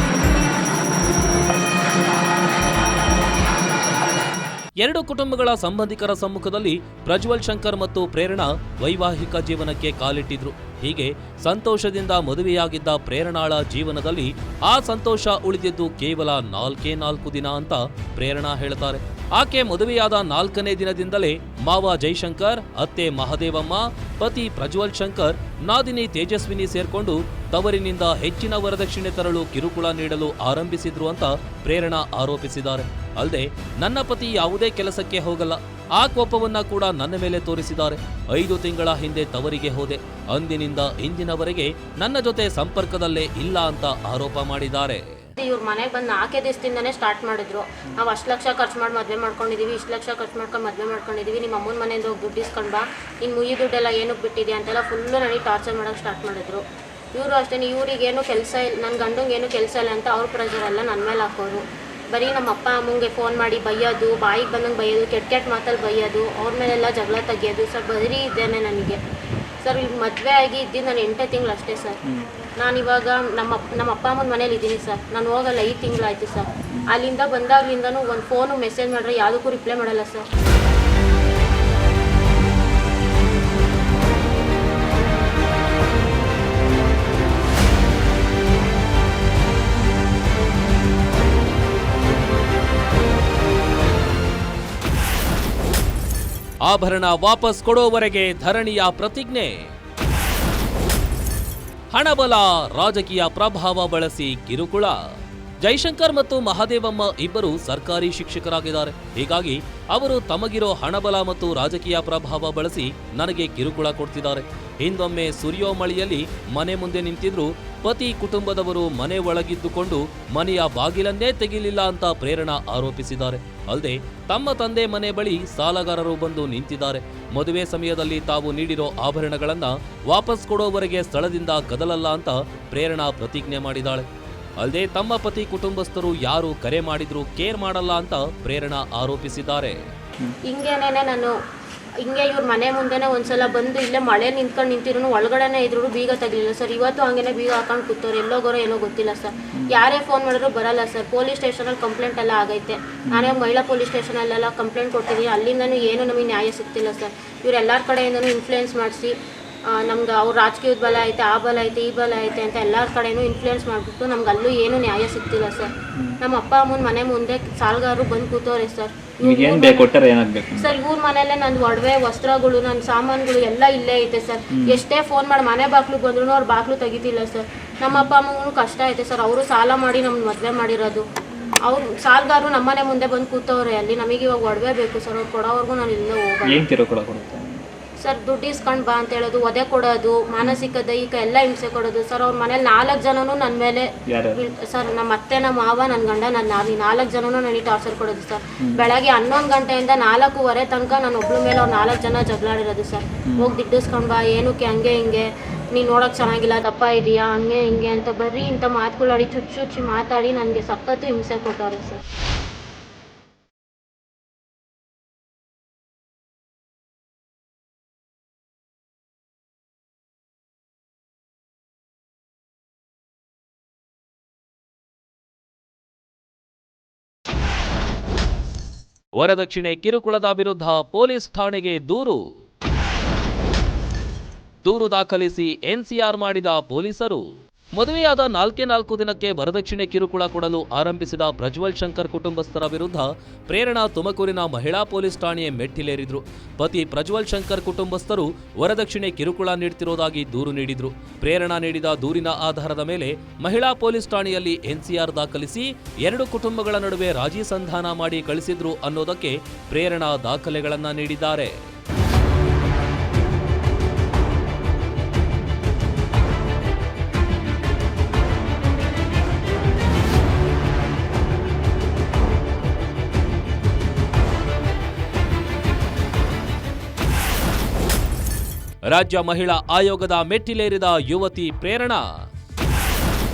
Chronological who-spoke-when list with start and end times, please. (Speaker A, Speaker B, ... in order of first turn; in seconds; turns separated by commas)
Speaker A: 4.8-45.2, Speaker B: 45.4-69.0, Speaker B: 69.6-72.0, Speaker B: 72.6-80.3, Speaker A: 96.7-99.7, Speaker A: 101.9-105.0, Speaker A: 105.6-134.1, Speaker A: 134.6-139.8, Speaker B: 140.5-141.3, Speaker B: 142.0-159.1, Speaker C: 153.1-153.4, Speaker B: 159.7-170.0, Speaker C: 169.2-170.8, Speaker B: 170.5-181.0, Speaker C: 174.5-174.8, Speaker B: 181.7-186.6, Speaker C: 186.4-187.7, Speaker B: 188.0-212.0, Speaker C: 190.4-190.7, Speaker C: 194.1-194.5, Speaker C: 198.6-198.9, Speaker C: 203.3-203.5, Speaker A: 229.2-232.2, Speaker A: 234.6-261.6, Speaker A: 278.9-282.0